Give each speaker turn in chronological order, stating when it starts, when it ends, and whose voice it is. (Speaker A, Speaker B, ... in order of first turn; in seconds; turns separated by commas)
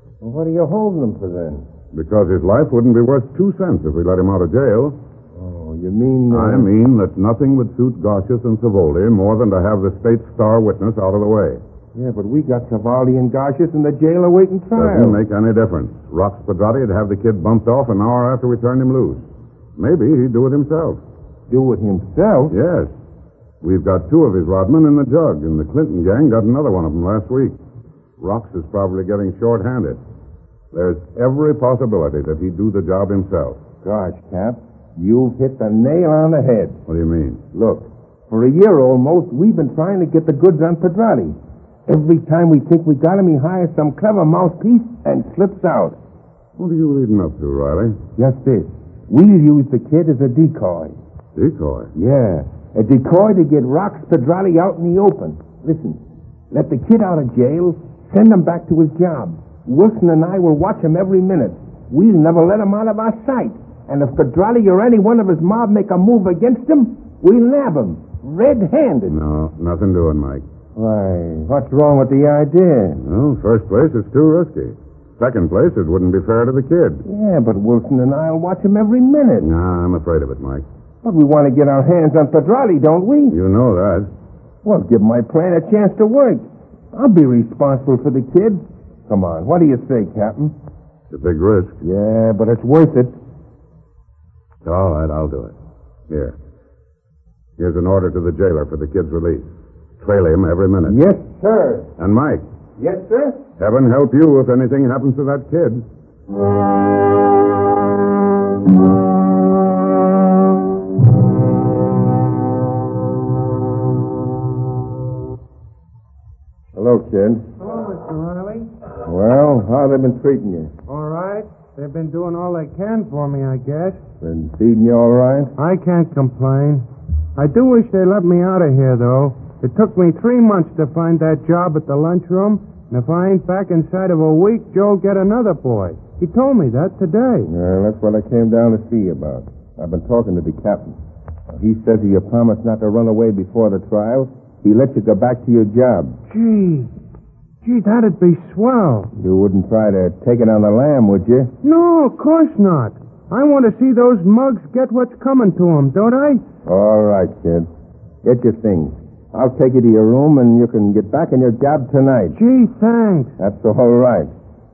Speaker A: 0.2-1.6, Speaker B: 1.9-5.0, Speaker A: 5.3-6.7, Speaker B: 6.3-11.6, Speaker A: 11.9-15.2, Speaker B: 14.7-19.3, Speaker B: 19.8-21.0, Speaker A: 21.5-22.6, Speaker B: 22.5-22.9, Speaker B: 23.6-27.6, Speaker B: 28.2-30.0, Speaker B: 30.7-33.6, Speaker A: 33.8-36.8, Speaker B: 36.9-37.4, Speaker A: 37.5-41.4, Speaker A: 41.9-46.0, Speaker B: 46.6-48.0, Speaker A: 48.2-51.0, Speaker B: 51.4-51.9, Speaker A: 52.0-56.0, Speaker A: 56.5-69.2, Speaker B: 69.1-70.4, Speaker A: 70.8-73.0, Speaker B: 73.0-77.0, Speaker A: 77.0-79.5, Speaker B: 79.4-80.6, Speaker A: 81.0-83.4, Speaker B: 83.3-84.1, Speaker A: 84.6-90.5, Speaker B: 91.1-91.7, Speaker A: 91.8-93.1, Speaker B: 94.6-95.5, Speaker B: 96.1-96.3, Speaker B: 97.6-101.0, Speaker A: 100.8-101.9, Speaker B: 102.0-102.4, Speaker A: 102.8-103.4, Speaker B: 103.6-105.8, Speaker A: 116.7-117.4, Speaker C: 117.6-118.7, Speaker A: 119.0-120.7, Speaker C: 120.9-124.0, Speaker A: 124.2-125.5, Speaker C: 125.5-137.5, Speaker A: 137.5-141.0, Speaker A: 141.5-146.2, Speaker C: 146.3-146.9, Speaker C: 147.6-149.1, Speaker A: 149.2-151.5, Speaker C: 151.6-156.4, Speaker A: 156.6-157.7, Speaker A: 158.2-162.4, Speaker C: 162.3-163.3, Speaker A: 163.4-164.3